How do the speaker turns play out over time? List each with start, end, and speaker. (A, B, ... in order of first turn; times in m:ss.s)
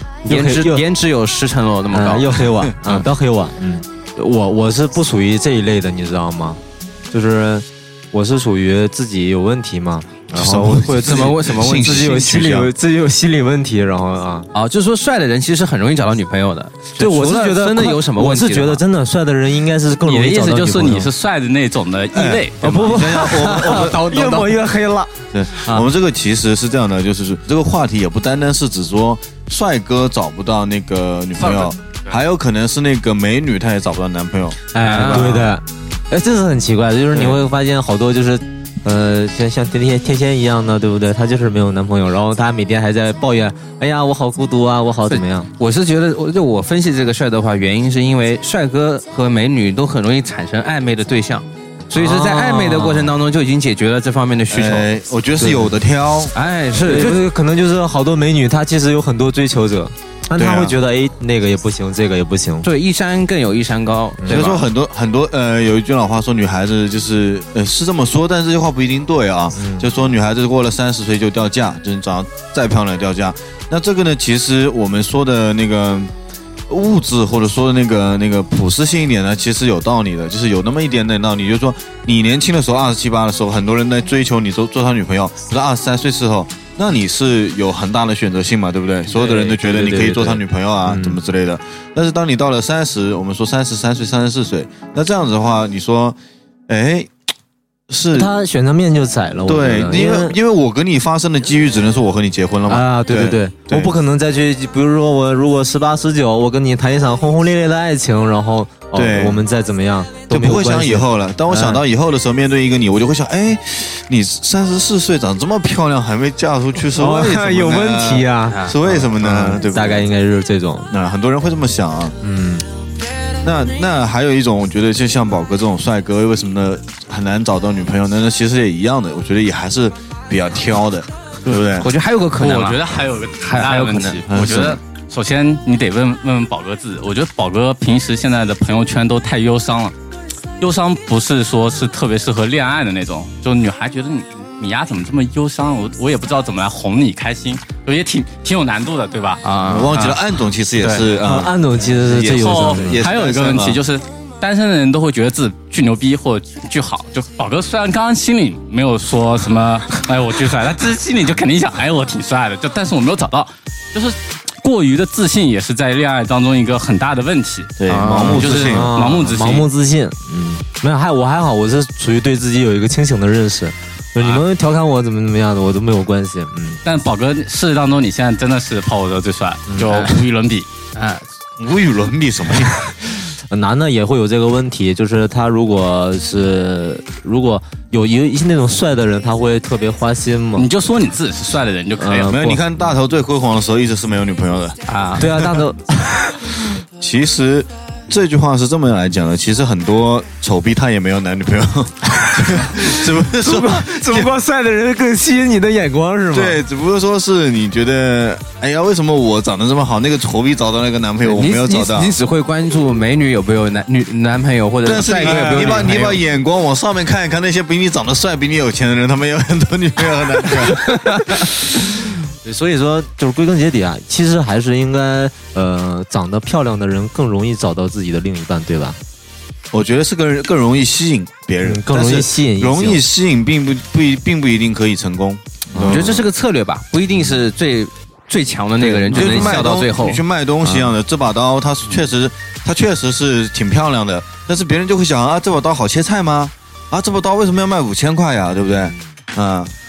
0:00.2-0:00.8 A
0:00.3-0:02.4 B
0:01.9-0:14.5 A
0:10.3-0:12.7 C
0:11.0-0:12.1 B
0:14.5-0:18.8 B
0:17.0-0:21.1 A
0:20.1-0:23.2 D
0:22.1-0:24.6 C
0:22.6-0:25.1 A
0:23.4-0:23.8 B
0:25.3-0:34.6 C
0:31.4-0:32.1 D
0:34.7-0:45.5 A
0:34.8-0:35.5 B
0:45.1-0:54.9 B
0:51.9-0:53.1 A
0:54.5-0:56.3 C
0:55.4-0:55.8 A
0:56.3-0:57.2 B
0:56.8-1:02.7 A
1:00.3-1:00.8 C
1:02.6-1:04.6 B
1:04.2-1:04.5 A
1:04.3-1:16.1 C
1:09.5-1:09.9 A
1:16.7-1:36.2 C
1:29.1-1:31.2 A
1:36.7-1:37.1 C
1:37.9-1:38.3 C
1:38.1-1:40.4 A
1:39.4-1:43.9 C
1:42.6-1:51.8 A
1:48.9-1:49.4 C
1:50.3-2:00.1 C
1:56.9-2:00.9 A
1:58.4-1:58.8 B
2:00.9-2:02.2 C
2:02.2-2:02.6 A
2:03.4-2:11.9 C
2:11.7-2:12.8 B
2:12.4-2:19.9 D
2:13.4-2:14.2 B
2:14.3-2:14.8 C
2:20.6-2:30.2 D
2:29.4-2:30.1 B
2:29.6-2:33.8 C
2:30.8-2:31.1 D
2:31.2-2:33.0 A
2:32.2-2:49.7 D
2:47.8-2:48.9 C
2:47.9-2:48.5 B
2:48.4-2:56.8 A
2:56.8-3:00.7 D
2:59.7-3:00.1 A
3:00.9-3:01.2 B
3:01.6-3:02.9 C
3:03.5-3:10.7 A
3:10.6-3:12.4 D
3:12.0-3:12.6 A
3:12.3-3:15.6 C
3:14.9-3:15.3 B
3:15.2-3:16.6 A
3:17.0-3:24.3 C
3:22.4-3:26.6 A
3:26.3-3:32.1 C
3:31.2-3:36.2 B
3:34.8-3:41.5 C
3:35.2-3:35.8 A
3:41.0-3:41.3 B
3:42.4-3:49.0 A
3:49.7-3:56.2 C
3:51.6-3:53.0 A
3:55.7-3:56.1 A
3:55.8-4:00.9 B
3:58.8-4:09.7 C
3:59.1-3:59.6 A